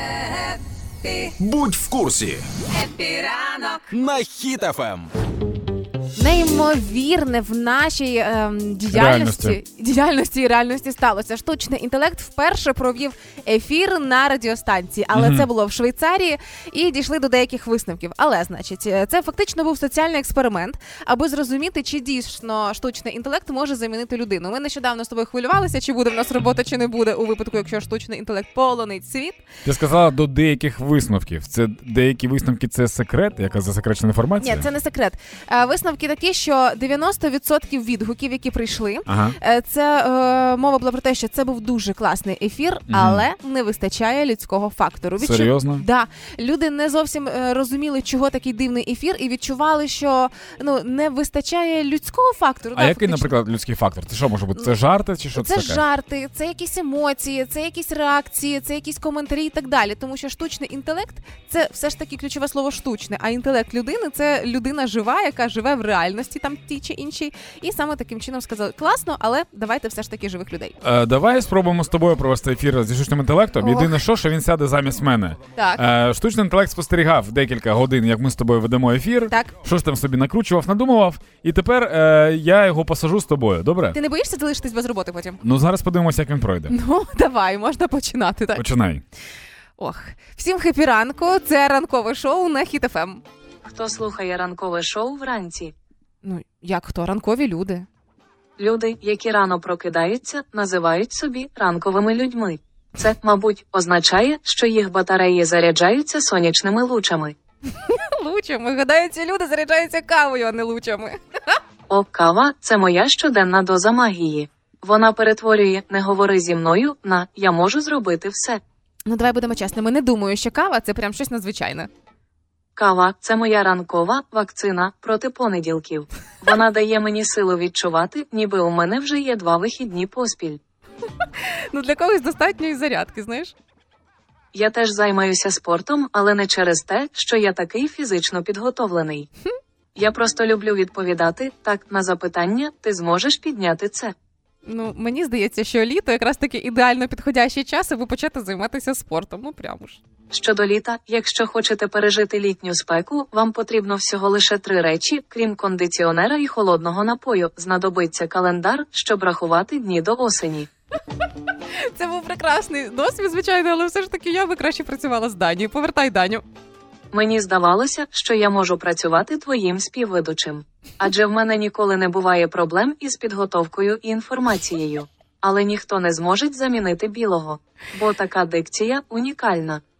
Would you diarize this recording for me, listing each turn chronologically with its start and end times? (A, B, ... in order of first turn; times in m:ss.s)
0:01.0-0:01.3 A
0:01.4-0:02.4 B
0:02.8-0:03.8 A
0:03.9-0:05.1 B
0:06.2-0:29.4 A
0:08.9-0:09.6 C
0:15.1-0:15.5 C
0:29.6-0:34.7 C
0:34.4-0:53.3 A
0:39.1-0:39.4 C
0:42.9-0:43.2 C
0:45.2-0:45.8 C
0:52.7-0:55.8 C
0:55.3-1:10.8 A
1:10.8-1:24.0 C
1:13.6-1:14.0 A
1:15.6-1:15.8 A
1:19.3-1:19.6 A
1:23.9-1:25.4 A
1:25.4-1:26.7 C
1:26.7-1:28.6 A
1:28.5-1:29.0 C
1:29.8-1:33.2 A
1:33.7-1:35.7 D
1:36.2-1:37.8 A
1:38.6-1:47.4 D
1:47.8-1:51.6 A
1:51.9-1:58.6 D
1:59.1-2:01.9 A
2:02.8-2:10.6 D
2:11.2-2:13.5 A
2:14.5-2:19.3 D
2:20.0-2:24.1 D
2:24.6-2:30.0 A
2:30.3-2:40.7 D
2:41.8-2:46.4 A
2:47.1-2:59.8 D